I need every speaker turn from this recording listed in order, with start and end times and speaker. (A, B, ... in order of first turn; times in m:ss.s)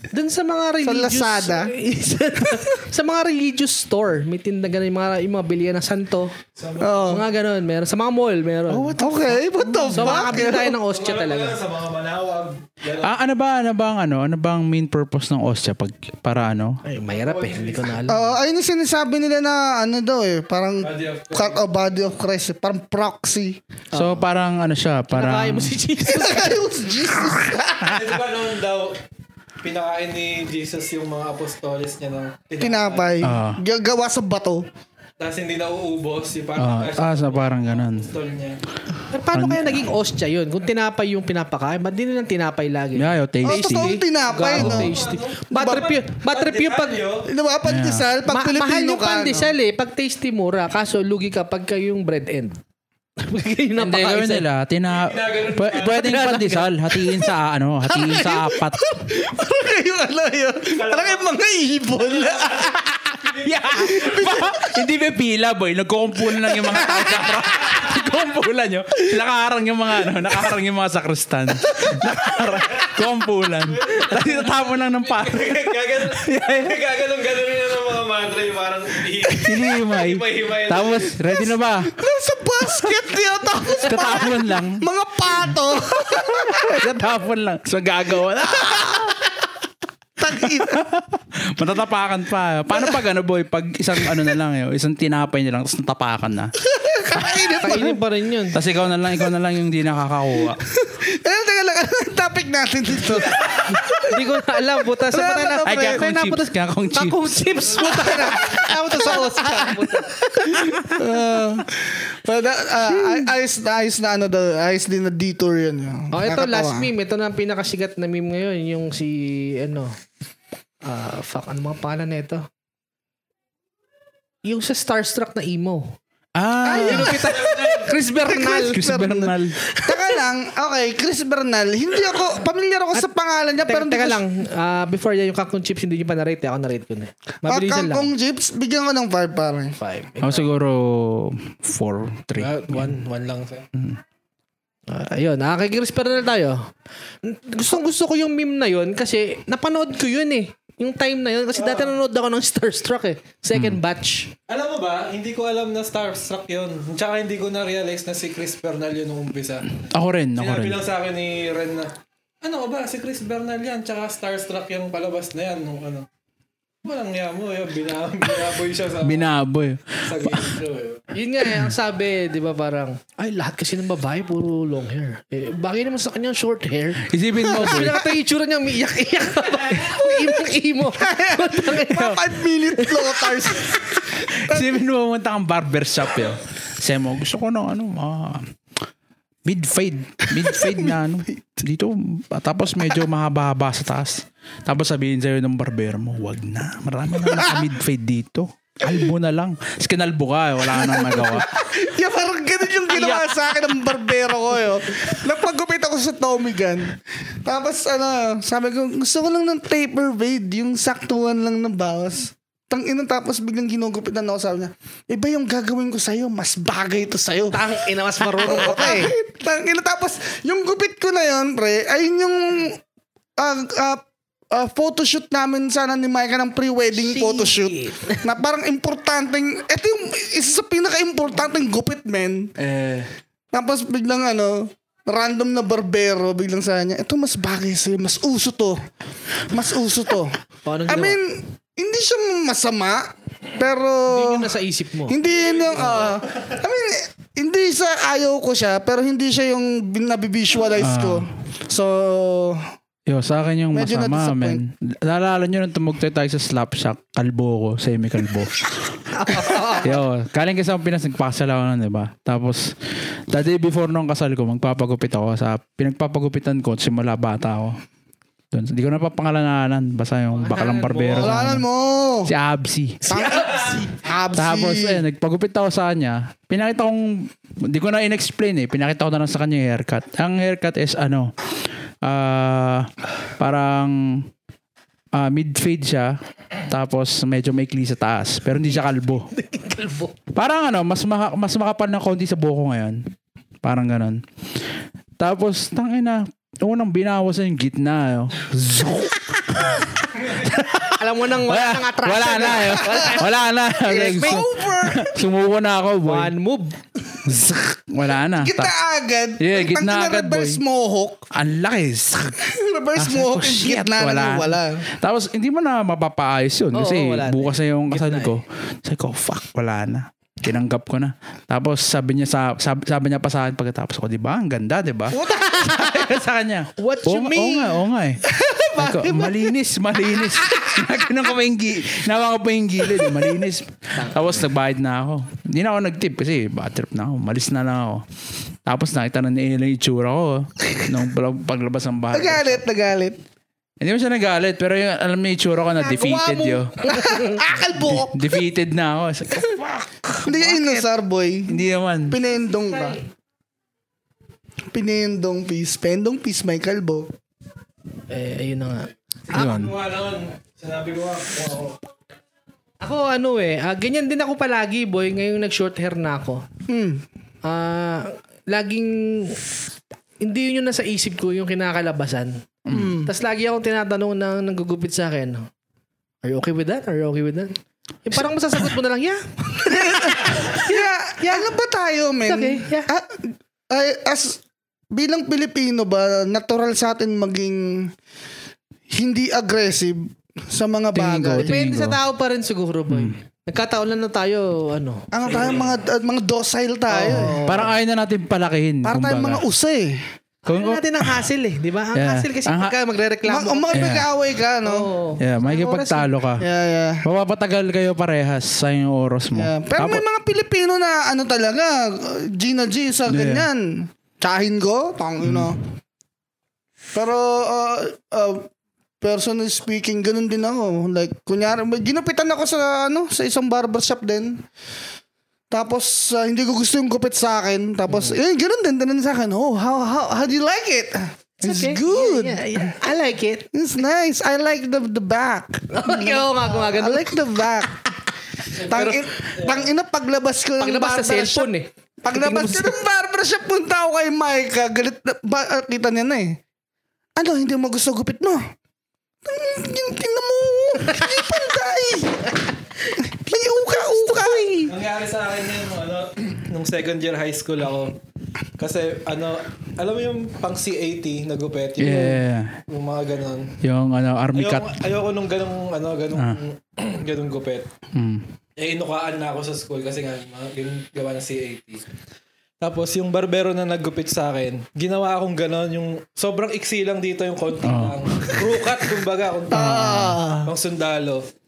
0:00.1-0:06.3 A
0:00.8-0:01.7 B
0:06.5-0:07.2 C
0:06.8-0:07.2 B
0:07.0-0:09.0 A
0:08.7-0:10.3 D
0:09.0-0:10.8 B
0:09.9-0:11.6 A
0:10.5-0:13.1 C
0:13.0-0:16.8 D
0:16.8-0:18.3 A
0:17.1-0:18.0 C
0:18.1-0:23.6 B
0:20.8-0:21.6 C
0:23.9-0:24.2 A
0:23.9-0:25.8 D
0:25.1-0:26.6 A
0:26.0-0:28.0 B
0:27.8-0:29.0 C
0:29.6-0:33.3 C
0:32.6-0:34.6 B
0:33.2-0:33.6 D
0:35.2-0:38.6 C
0:36.6-0:38.1 D
0:39.1-0:47.1 A
0:39.3-0:39.9 D
0:43.0-0:44.0 D
0:43.4-0:44.9 B
0:44.3-0:47.3 C
0:44.5-0:44.9 D
0:45.5-0:45.9 B
0:47.2-0:49.5 B
0:47.6-0:48.1 D
0:48.3-0:52.6 A
0:53.2-0:54.4 A
0:53.8-0:58.9 D
0:54.9-0:56.0 C
0:55.8-0:57.2 A
0:57.9-1:03.1 B
1:00.7-1:01.3 C
1:02.0-1:04.0 C
1:03.4-1:16.8 D
1:03.7-1:04.6 B
1:13.7-1:21.2 C
1:19.3-1:21.9 D
1:21.9-1:26.9 B
1:23.8-1:24.8 D
1:25.9-1:29.3 D
1:30.2-1:30.8 B
1:30.4-1:36.5 D
1:36.7-1:38.0 B
1:37.6-1:38.6 A
1:38.5-1:40.6 D
1:40.7-1:44.4 B
1:43.8-1:51.0 A
1:45.0-1:46.0 B
1:45.6-1:47.2 D
1:47.7-1:56.9 B
1:56.1-1:59.9 A
2:00.8-2:02.4 A
2:04.4-2:05.9 A
2:06.4-2:07.3 D
2:06.6-2:07.6 B
2:06.7-2:08.8 A
2:07.3-2:07.9 C
2:08.1-2:14.2 B
2:08.4-2:09.6 D
2:13.6-2:18.1 A
2:17.4-2:19.8 B
2:19.8-2:20.5 A
2:20.2-2:23.0 D
2:22.4-2:23.7 C
2:24.9-2:26.7 A
2:27.2-2:34.3 A
2:31.6-2:32.0 C
2:33.5-2:33.8 D
2:34.5-2:46.1 C
2:39.9-2:40.8 D
2:46.8-2:49.3 C
2:49.0-2:50.5 D
2:50.0-2:51.1 C
2:51.1-3:03.5 A
2:57.0-2:58.0 D
3:00.9-3:04.8 B
3:04.2-3:08.5 D
3:09.4-3:21.5 D
3:10.3-3:10.9 B
3:17.3-3:17.6 B
3:20.7-3:42.8 B
3:37.5-3:39.1 A
3:43.4-3:52.5 B
3:46.9-3:48.2 A
3:52.6-3:53.1 D
3:53.5-3:58.8 B
3:59.5-4:04.6 B
4:00.6-4:01.2 A
4:04.1-4:05.2 A
4:05.1-4:12.6 B
4:05.3-4:06.2 C
4:10.8-4:11.3 D
4:13.1-4:22.7 D
4:13.7-4:14.6 B
4:19.1-4:20.0 A
4:23.3-4:27.8 D
4:28.5-4:31.6 D
4:30.3-4:31.4 A
4:31.1-4:32.3 B
4:32.2-4:33.0 D
4:33.1-4:35.0 B
4:33.1-4:33.8 A
4:34.3-4:41.3 D
4:42.0-4:44.3 D
4:45.1-4:46.2 D
4:46.7-4:49.3 D
4:49.3-4:50.2 A
4:50.3-4:53.1 D
4:53.6-4:54.2 D
4:55.2-5:06.3 D
5:00.9-5:04.4 A
5:02.8-5:03.2 B
5:03.8-5:05.2 B
5:06.0-5:06.8 A
5:07.2-5:08.7 D
5:08.4-5:11.2 B
5:09.4-5:10.6 D
5:11.3-5:12.4 D
5:12.4-5:14.9 B
5:13.0-5:28.2 D
5:16.7-5:18.4 A
5:25.2-5:26.1 A
5:26.8-5:27.8 A
5:28.3-5:29.5 B
5:28.8-5:38.0 D
5:34.0-5:34.4 A
5:38.6-5:42.6 D
5:42.1-5:43.2 B
5:43.8-5:46.8 D
5:45.8-5:48.3 B
5:47.0-5:47.4 A
5:47.7-5:50.8 D
5:50.2-5:53.0 B
5:51.5-5:52.2 D
5:52.7-5:53.0 A
5:54.7-5:57.1 B
5:58.1-5:58.9 A
5:59.3-6:01.8 C
5:59.3-5:59.7 D
6:02.8-6:06.4 A
6:06.7-6:07.0 B
6:07.4-6:09.4 A
6:10.2-6:12.4 A
6:12.7-6:12.9 D
6:12.7-6:13.1 B
6:13.0-6:15.5 A
6:16.2-6:21.4 A
6:19.7-6:24.4 B
6:22.3-6:22.9 A
6:24.9-6:27.9 B
6:28.9-6:31.5 B
6:30.9-6:32.0 D
6:31.4-6:35.1 A
6:32.9-6:33.2 D
6:35.1-6:37.4 B
6:36.9-6:37.7 A
6:37.4-6:39.4 D
6:38.8-6:40.0 B
6:40.4-6:43.9 A
6:40.5-6:41.2 D
6:41.9-6:42.7 D
6:43.3-6:44.9 B
6:43.7-6:44.1 D
6:44.6-6:46.1 A
6:45.2-6:46.5 D
6:46.4-6:47.0 B
6:47.0-6:50.0 D
6:49.3-6:55.6 B
6:53.1-6:53.5 D
6:55.2-6:55.5 D
6:56.9-6:58.5 B
6:59.0-7:04.4 B
7:05.5-7:12.7 B
7:11.4-7:13.5 A
7:13.5-7:17.8 B
7:15.7-7:17.2 A
7:18.5-7:19.7 C
7:18.6-7:21.5 B
7:20.6-7:22.7 A
7:22.0-7:26.4 B
7:27.2-7:28.4 B
7:29.2-7:32.4 B
7:33.0-7:34.7 B
7:34.6-7:38.0 C
7:38.6-7:43.5 C
7:41.8-7:42.6 D
7:43.6-7:44.8 D
7:44.3-7:47.7 C
7:46.1-7:46.4 D
7:47.9-7:48.3 D
7:48.6-7:51.9 C
7:52.6-8:01.3 C
7:57.6-7:58.5 D
7:59.5-8:00.5 B